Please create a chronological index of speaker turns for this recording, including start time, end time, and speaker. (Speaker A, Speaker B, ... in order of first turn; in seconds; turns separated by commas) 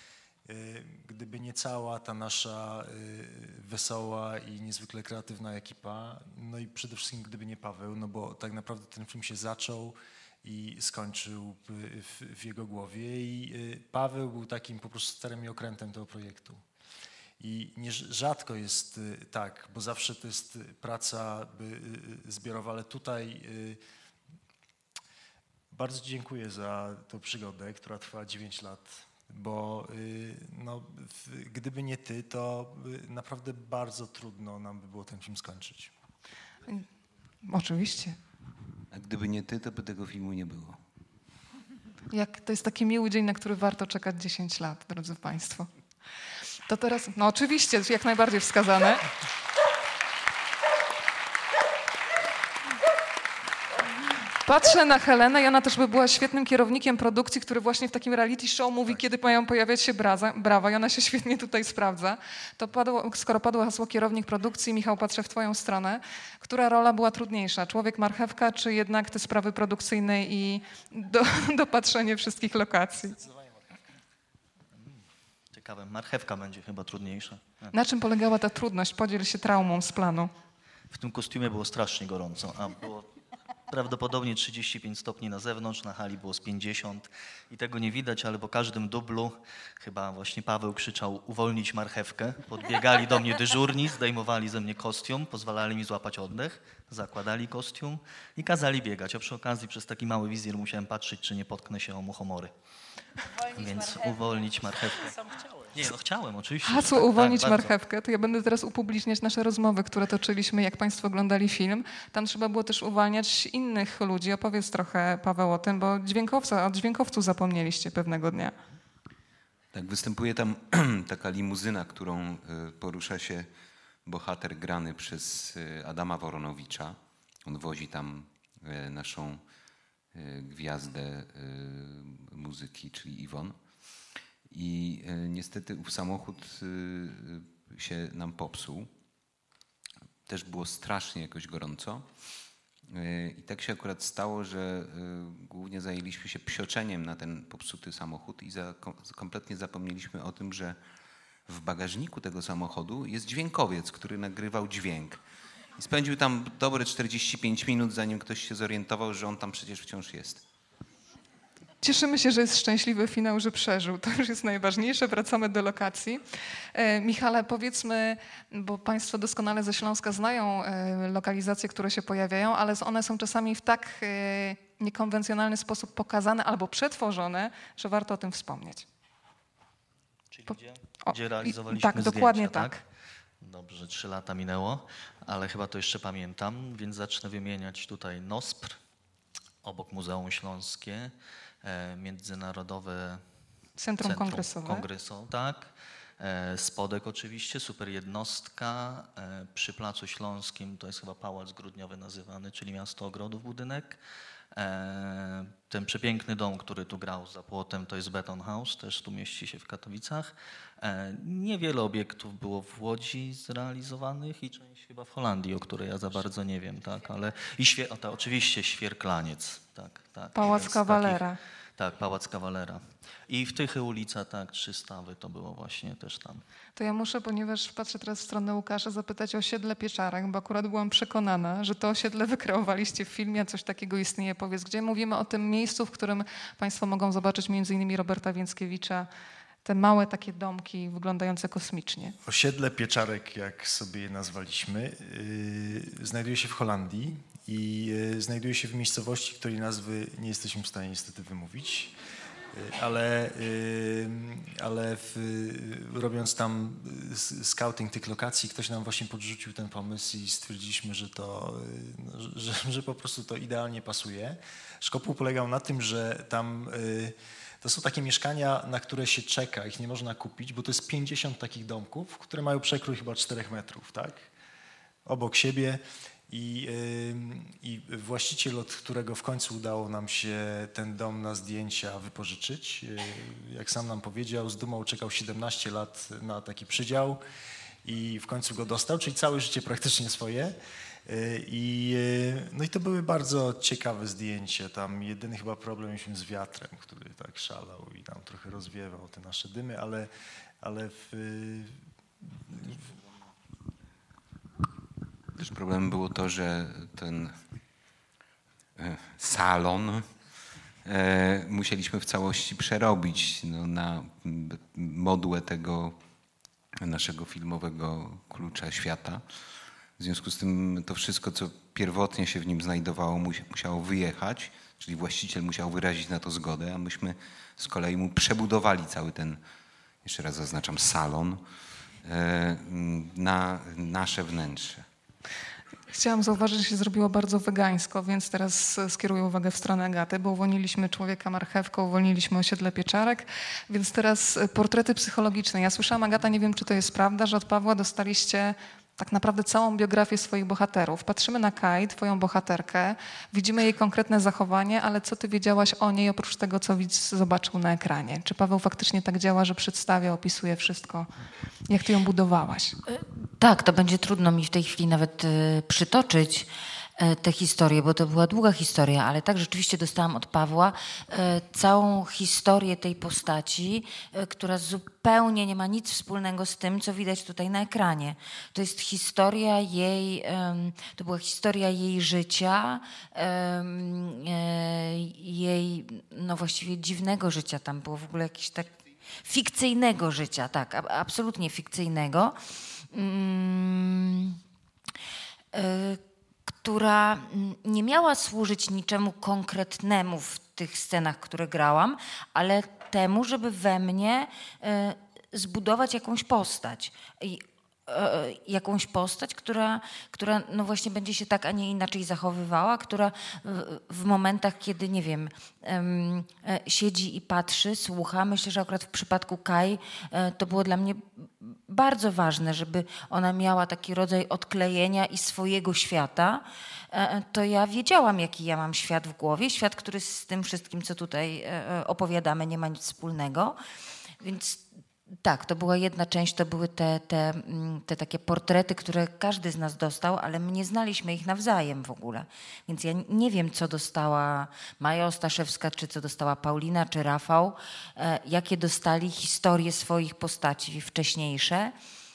Speaker A: 0.5-16.6, Speaker A: 17.4-23.8, Speaker A: 25.7-35.9, Speaker B: 37.4-38.2, Speaker C: 38.9-40.8, Speaker B: 42.1-45.7, Speaker B: 46.7-49.0, Speaker B: 54.4-73.2, Speaker D: 74.8-77.7, Speaker B: 77.7-80.3, Speaker D: 80.9-83.1, Speaker D: 83.7-102.5, Speaker D: 103.5-107.7, Speaker B: 106.6-118.5, Speaker C: 119.7-123.5, Speaker C: 124.0-129.4, Speaker C: 130.1-133.6, Speaker C: 134.5-138.9, Speaker C: 140.2-142.1, Speaker C: 142.9-150.8, Speaker C: 151.5-155.2, Speaker C: 155.8-160.4, Speaker B: 161.8-166.2, Speaker B: 166.7-178.8, Speaker D: 180.3-182.8, Speaker B: 180.5-182.8, Speaker D: 183.4-188.8, Speaker D: 189.6-193.2, Speaker B: 193.8-194.8, Speaker D: 194.0-204.0, Speaker D: 204.5-221.2, Speaker B: 220.3-221.4, Speaker D: 221.8-226.4, Speaker B: 226.8-239.1, Speaker B: 239.6-242.2, Speaker A: 242.2-251.9, Speaker A: 252.5-274.3, Speaker A: 275.0-287.2, Speaker A: 287.8-300.1, Speaker A: 300.6-302.9, Speaker C: 305.4-307.3, Speaker C: 308.8-310.1, Speaker C: 310.8-316.0, Speaker C: 316.8-319.2, Speaker C: 320.0-329.4, Speaker C: 330.0-331.4, Speaker C: 332.0-334.9, Speaker B: 335.9-361.1, Speaker B: 361.7-362.8, Speaker E: 362.9-392.4, Speaker E: 392.9-394.4, Speaker E: 395.5-433.6, Speaker E: 434.2-434.6, Speaker E: 435.2-451.7